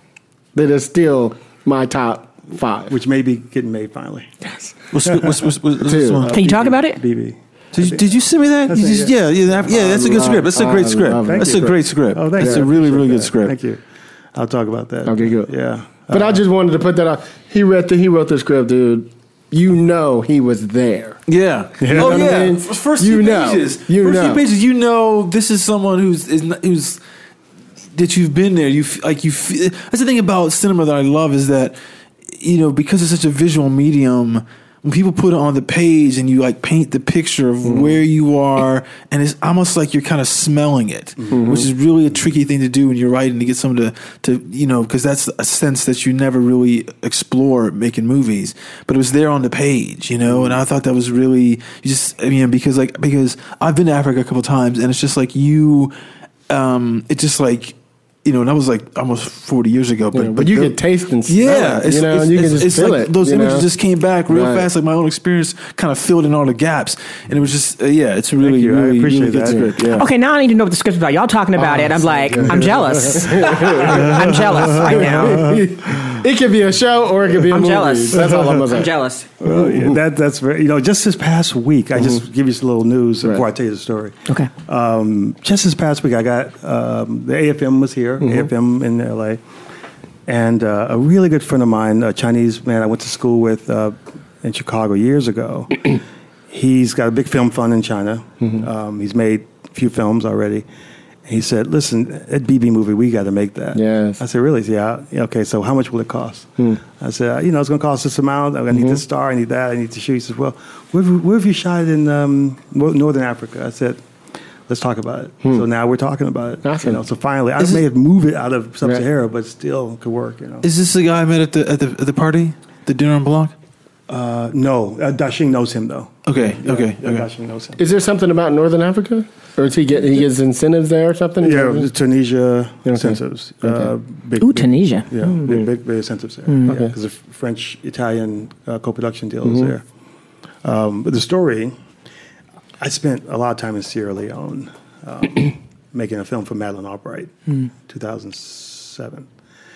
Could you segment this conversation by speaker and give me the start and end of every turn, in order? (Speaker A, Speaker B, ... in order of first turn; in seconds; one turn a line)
Speaker A: 0.5-3.0
Speaker B: 2.9-4.3
Speaker C: 4.9-6.5
Speaker B: 5.0-5.4
Speaker A: 5.8-6.3
Speaker B: 6.2-8.1
Speaker D: 6.3-7.0
Speaker C: 7.7-13.6
Speaker B: 8.7-10.4
Speaker A: 9.7-11.8
Speaker B: 11.3-13.8
Speaker A: 12.4-12.7
Speaker B: 14.3-16.4
Speaker A: 15.1-15.5
Speaker A: 16.1-21.2
Speaker C: 21.3-27.0
Speaker B: 21.8-22.2
Speaker A: 21.9-24.4
Speaker C: 27.9-55.9
Speaker A: 37.6-38.0
Speaker B: 41.2-41.5
Speaker A: 41.3-41.7
Speaker B: 50.3-50.6
Speaker C: 56.5-69.8
Speaker A: 60.1-63.7
Speaker A: 64.3-64.7
Speaker B: 68.4-69.7
Speaker A: 69.5-70.0
Speaker D: 69.9-75.5
Speaker A: 71.6-78.9
Speaker B: 72.5-76.2
Speaker D: 77.5-79.3
Speaker B: 78.2-78.5
Speaker B: 79.4-89.4
Speaker A: 79.5-80.0
Speaker A: 88.2-88.5
Speaker B: 90.3-96.0
Speaker B: 96.5-100.7
Speaker A: 98.4-98.7
Speaker B: 101.3-114.0
Speaker A: 103.8-104.2
Speaker A: 108.7-109.0
Speaker B: 114.7-120.7
Speaker A: 116.6-117.0
Speaker C: 120.6-123.5
Speaker B: 124.1-127.8
Speaker C: 126.2-127.3
Speaker A: 127.8-131.9
Speaker B: 131.4-139.8
Speaker A: 132.9-133.9
Speaker D: 134.4-135.6
Speaker D: 136.5-136.8
Speaker A: 136.7-136.9
Speaker A: 139.4-139.7
Speaker B: 140.6-141.8
Speaker B: 142.8-149.3